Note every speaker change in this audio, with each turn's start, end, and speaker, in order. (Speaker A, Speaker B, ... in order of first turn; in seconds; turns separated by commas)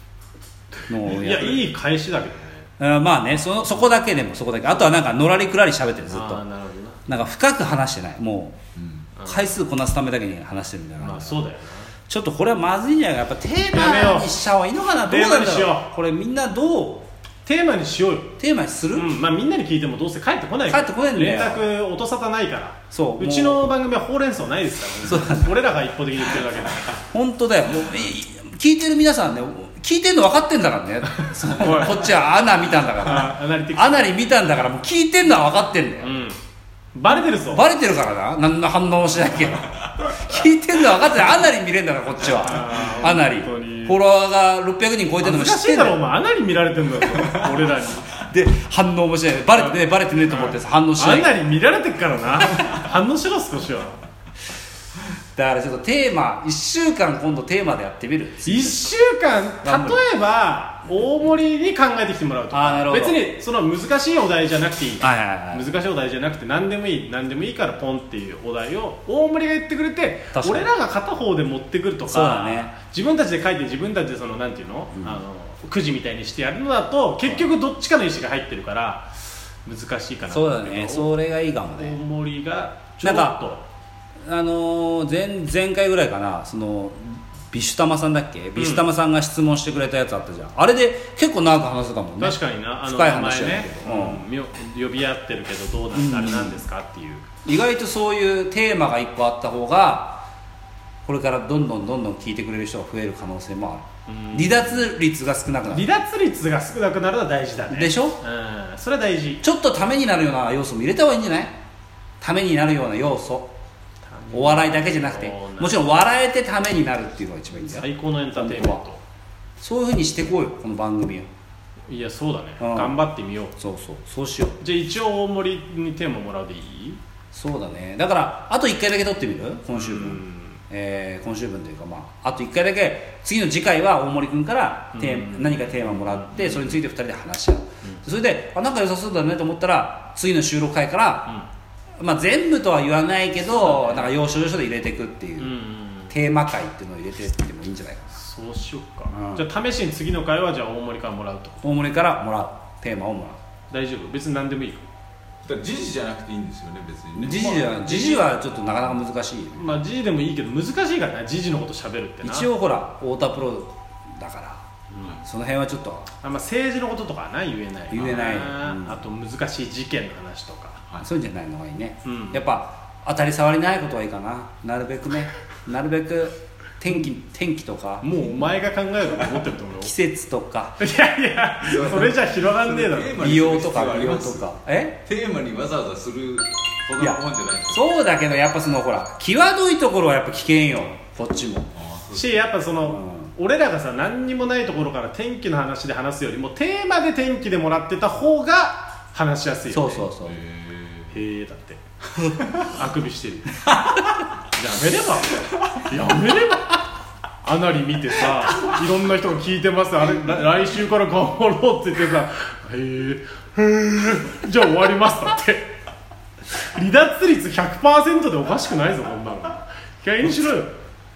Speaker A: 0.9-1.7, Speaker B: 0.9-2.7, Speaker A: 2.8-6.4, Speaker B: 6.1-7.0, Speaker A: 7.1-8.6, Speaker C: 8.8-9.1, Speaker B: 9.2-9.5, Speaker A: 9.2-11.5, Speaker B: 11.0-11.9, Speaker A: 12.1-17.1, Speaker B: 13.7-14.3, Speaker B: 15.1-15.9, Speaker B: 17.4-18.4, Speaker A: 18.4-19.1, Speaker B: 18.9-27.0, Speaker A: 20.7-21.7, Speaker A: 22.9-23.7, Speaker A: 25.1-25.5, Speaker A: 27.0-36.1, Speaker B: 31.2-32.1, Speaker B: 33.0-34.1, Speaker B: 36.0-36.4, Speaker B: 36.9-37.7, Speaker A: 37.1-46.0, Speaker B: 42.4-44.0, Speaker B: 45.2-48.2, Speaker A: 47.2-47.5, Speaker A: 48.1-51.4, Speaker B: 50.3-54.0, Speaker A: 55.4-59.0, Speaker B: 58.4-81.1, Speaker A: 59.6-60.0, Speaker A: 62.5-63.3, Speaker A: 65.0-65.7, Speaker A: 70.3-70.7, Speaker A: 72.1-72.7, Speaker A: 74.9-75.2, Speaker A: 80.3-82.0, Speaker B: 81.7-83.6, Speaker A: 83.0-83.4, Speaker A: 84.3-94.2, Speaker B: 88.6-88.9, Speaker B: 92.2-97.3, Speaker A: 95.9-96.6, Speaker A: 97.5-100.3, Speaker A: 101.1-105.9, Speaker B: 104.1-104.9, Speaker B: 105.7-109.4, Speaker A: 107.7-108.2, Speaker A: 109.4-111.5, Speaker A: 112.2-113.5, Speaker B: 114.1-115.8, Speaker A: 114.3-118.8, Speaker B: 117.6-119.0, Speaker A: 119.6-121.3, Speaker B: 121.9-123.6, Speaker A: 122.6-123.0, Speaker A: 123.6-124.6, Speaker B: 124.6-127.0, Speaker A: 127.3-141.4, Speaker B: 129.7-130.6, Speaker B: 134.9-136.8, Speaker A: 142.0-148.1, Speaker B: 143.4-144.1, Speaker B: 145.4-146.1, Speaker B: 148.1-151.6, Speaker A: 149.1-149.4, Speaker A: 151.6-153.4, Speaker B: 153.7-154.9, Speaker C: 155.4-157.6, Speaker A: 157.2-159.8, Speaker B: 157.3-158.4, Speaker B: 159.5-162.5, Speaker A: 162.2-166.1, Speaker B: 164.9-165.2, Speaker B: 166.2-170.8, Speaker A: 167.9-169.0, Speaker A: 171.0-178.1, Speaker B: 172.1-172.4, Speaker B: 178.0-179.9, Speaker A: 179.8-180.8, Speaker B: 180.8-183.2, Speaker C: 181.7-184.5, Speaker A: 183.2-185.0, Speaker C: 185.0-187.9, Speaker A: 187.0-191.7, Speaker C: 191.8-192.3, Speaker B: 192.1-200.1, Speaker A: 192.9-193.3, Speaker A: 199.7-200.4, Speaker C: 200.2-201.1, Speaker B: 201.1-201.8, Speaker B: 202.5-203.7, Speaker B: 204.4-206.8, Speaker B: 207.4-215.7, Speaker B: 216.5-220.8